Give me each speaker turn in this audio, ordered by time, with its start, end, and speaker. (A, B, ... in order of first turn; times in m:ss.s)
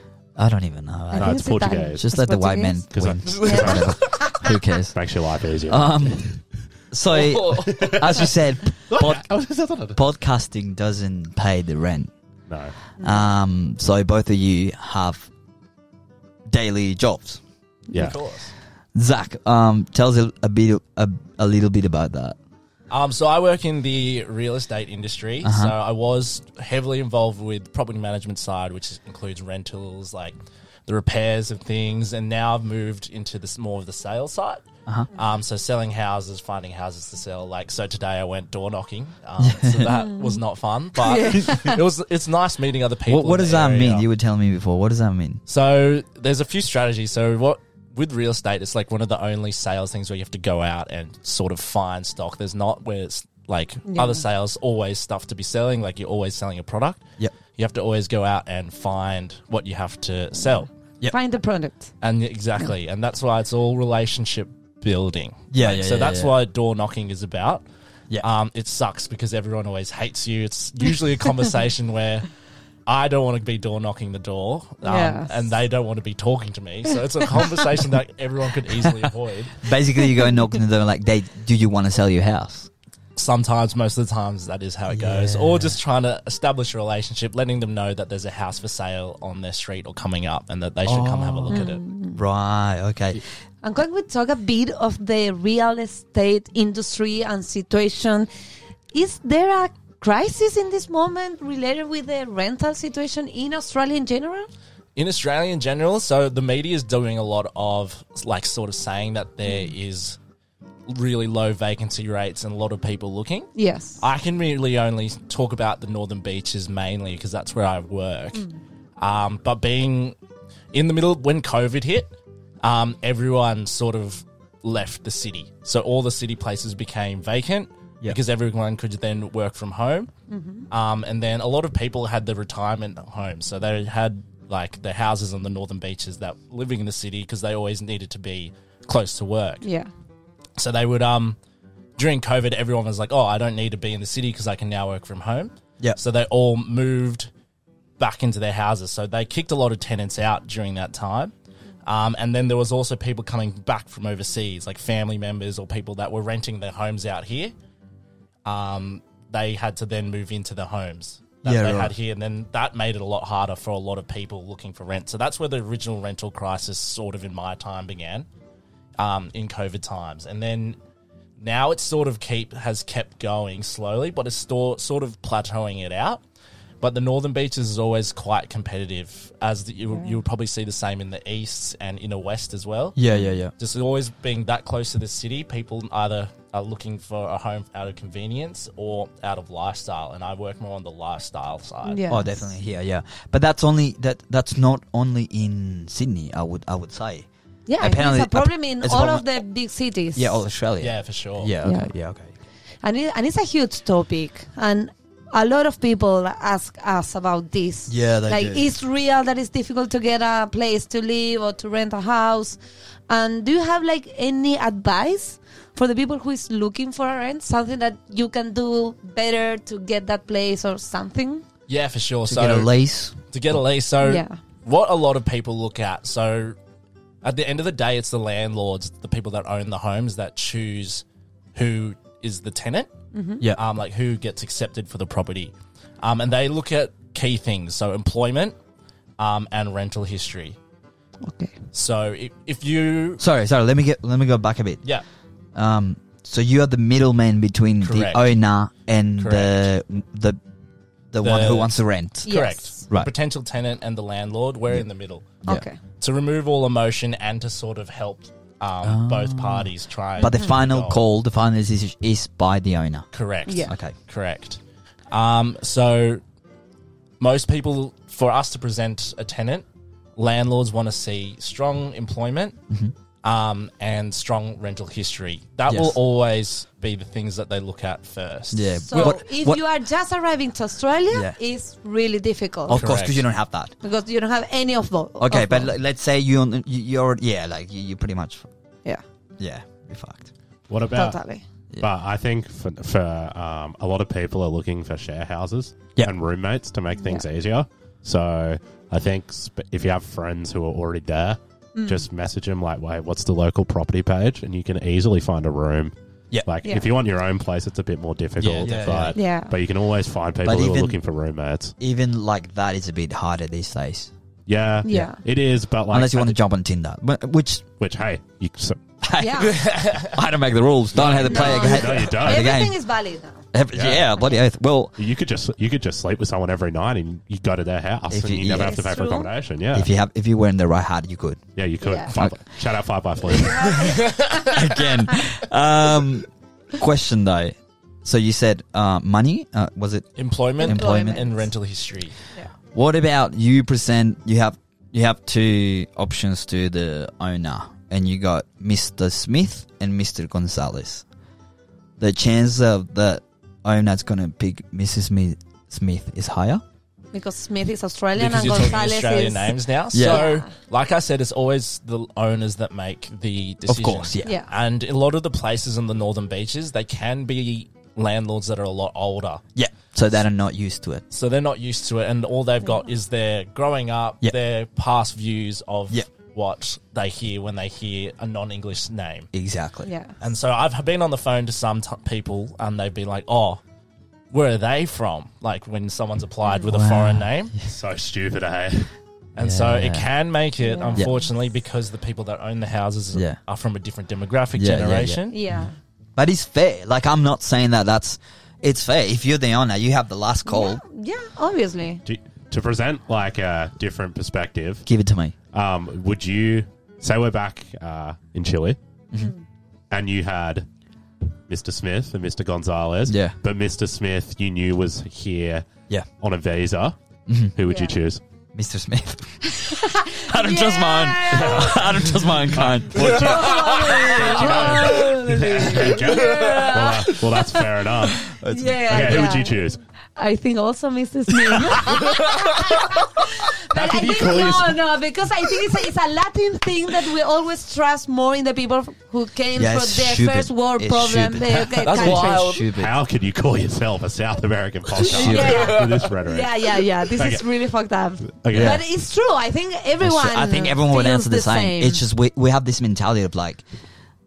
0:00.4-0:05.0 A
0:01.1-0:02.8 B
0:01.2-0:02.0 C
0:02.9-0:04.0 C
0:03.2-0:04.3 D
0:03.4-0:04.5 B
0:04.9-0:06.4 C
0:05.7-0:06.4 A
0:06.9-0:09.2 A
0:07.1-0:08.3 D
0:07.7-0:08.2 C
0:08.9-0:10.0 C
0:09.9-0:12.1 A
0:12.5-0:12.7 C
0:13.0-0:15.3 A
0:13.0-0:13.2 B
0:16.5-0:17.4 A
0:17.9-0:18.2 C
0:17.9-0:18.5 D
0:18.9-0:22.4 A
0:22.9-0:30.4 D
0:25.4-0:25.7 A
0:30.9-0:34.6 D
0:35.1-0:44.0 D
0:39.4-0:39.9 A
0:39.9-0:40.4 B
0:41.0-0:41.8 B
0:43.1-0:45.4 A
0:45.5-1:00.7 D
0:53.9-0:54.2 B
1:01.1-1:01.9 B
1:02.0-1:07.6 D
1:05.5-1:06.3 A
1:08.2-1:12.3 D
1:12.8-1:19.7 D
1:14.8-1:15.4 B
1:19.6-1:22.7 A
1:23.2-1:31.8 D
1:24.9-1:25.8 A
1:30.8-1:33.2 A
1:31.5-1:32.2 B
1:33.6-1:38.3 B
1:38.9-1:44.5 B
1:45.0-1:50.2 D
1:49.5-1:49.7 B
1:50.9-1:58.4 D
1:53.6-1:54.0 B
1:59.0-2:00.2 D
2:00.7-2:10.1 D
2:10.3-2:10.6 B
2:10.7-2:19.7 D
2:19.6-2:19.9 B
2:20.6-2:21.4 D
2:22.0-2:27.3 D
2:28.0-2:31.3 D
2:31.8-2:37.5 D
2:38.4-2:48.3 D
2:41.4-2:41.9 A
2:49.0-2:50.8 D
2:51.4-2:56.2 D
2:56.8-3:03.0 D
3:03.0-3:03.5 A
3:03.1-3:03.3 B
3:03.6-3:12.1 D
3:11.8-3:12.4 B
3:12.1-3:17.3 A
3:17.7-3:20.4 B
3:17.8-3:19.3 A
3:20.1-3:22.3 A
3:20.8-3:21.5 D
3:21.6-3:21.9 B
3:22.8-3:41.4 B
3:27.9-3:28.7 A
3:41.7-3:42.7 D
3:42.2-3:43.2 A
3:43.3-3:46.6 D
3:44.0-3:44.4 B
3:47.2-3:51.0 D
3:51.5-3:52.9 D
3:53.1-3:53.4 B
3:53.5-3:58.5 D
3:59.2-4:00.6 D
4:01.2-4:01.5 B
4:01.7-4:03.2 D
4:03.2-4:04.8 A
4:05.5-4:10.4 A
4:07.8-4:08.3 D
4:09.2-4:09.7 D
4:11.1-4:12.3 A
4:11.2-4:15.4 D
4:12.2-4:12.8 B
4:15.4-4:15.8 B
4:16.0-4:21.0 D
4:18.8-4:23.1 A
4:20.2-4:20.6 B
4:23.1-4:24.6 D
4:23.5-4:23.7 B
4:23.6-4:23.9 A
4:25.1-4:26.2 D
4:27.2-4:29.6 D
4:30.2-4:32.6 D
4:33.2-4:39.2 D
4:35.7-4:36.0 A
4:38.5-4:39.6 A
4:38.8-4:42.8 B
4:41.1-4:41.4 A
4:42.7-4:43.7 A
4:42.7-4:43.2 D
4:43.8-4:45.7 B
4:45.2-4:48.5 A
4:49.4-4:50.3 A
4:50.7-4:51.2 C
4:50.9-4:51.4 B
4:51.8-5:05.9 C
4:57.0-4:57.2 B
5:01.8-5:02.0 B
5:06.4-5:11.7 C
5:08.4-5:08.9 D
5:08.4-5:09.2 A
5:09.1-5:09.5 B
5:10.4-5:11.0 A
5:11.8-5:14.1 A
5:14.5-5:16.4 C
5:14.8-5:15.2 B
5:15.9-5:17.6 A
5:17.8-5:18.8 C
5:19.0-5:22.8 A
5:19.2-5:19.6 B
5:19.4-5:20.2 D
5:20.9-5:22.6 C
5:21.0-5:21.2 D
5:21.2-5:23.4 B
5:23.5-5:25.0 A
5:23.7-5:24.1 C
5:25.0-5:29.9 C
5:28.1-5:28.9 A
5:28.6-5:29.3 B
5:29.7-5:31.4 A
5:31.6-5:33.7 C
5:31.8-5:32.1 B
5:33.3-5:34.5 B
5:33.6-5:34.8 D
5:34.4-5:41.3 A
5:40.2-5:42.1 D
5:40.6-5:41.4 B
5:42.7-5:51.0 A
5:52.0-5:56.6 A
5:57.1-6:00.5 B
5:58.2-6:09.4 D
5:59.9-6:00.2 A
6:03.7-6:04.3 A
6:04.2-6:04.5 B
6:09.6-6:11.0 A
6:11.1-6:19.3 D
6:19.3-6:19.9 A
6:19.8-6:20.1 B
6:20.2-6:23.6 D
6:24.3-6:27.5 D
6:26.6-6:27.7 A
6:27.6-6:28.9 C
6:29.4-6:35.4 D
6:29.4-6:30.1 A
6:30.6-6:31.2 B
6:34.6-6:35.2 A
6:35.3-6:35.7 B
6:36.2-6:40.8 A
6:40.5-6:42.0 B
6:42.0-6:44.8 C
6:44.8-6:45.3 A
6:45.5-6:48.8 C
6:49.9-6:50.7 C
6:51.5-6:55.7 C
6:53.0-6:53.4 A
6:56.2-6:57.0 C
6:57.3-6:57.6 A
6:57.5-6:58.2 C
6:57.7-6:57.9 B
6:58.5-7:03.5 A
6:59.6-7:01.8 B
7:01.3-7:08.3 C
7:02.9-7:07.1 D
7:03.1-7:09.6 B
7:08.2-7:09.3 A
7:08.9-7:09.8 C
7:10.2-7:22.4 B
7:11.8-7:12.9 D
7:13.7-7:14.8 C
7:19.5-7:23.0 A
7:21.8-7:22.7 D
7:22.7-7:27.4 C
7:25.0-7:32.0 B
7:25.0-7:25.7 A
7:25.0-7:26.2 D
7:28.3-7:28.8 C
7:28.5-7:28.8 A
7:30.0-7:33.6 A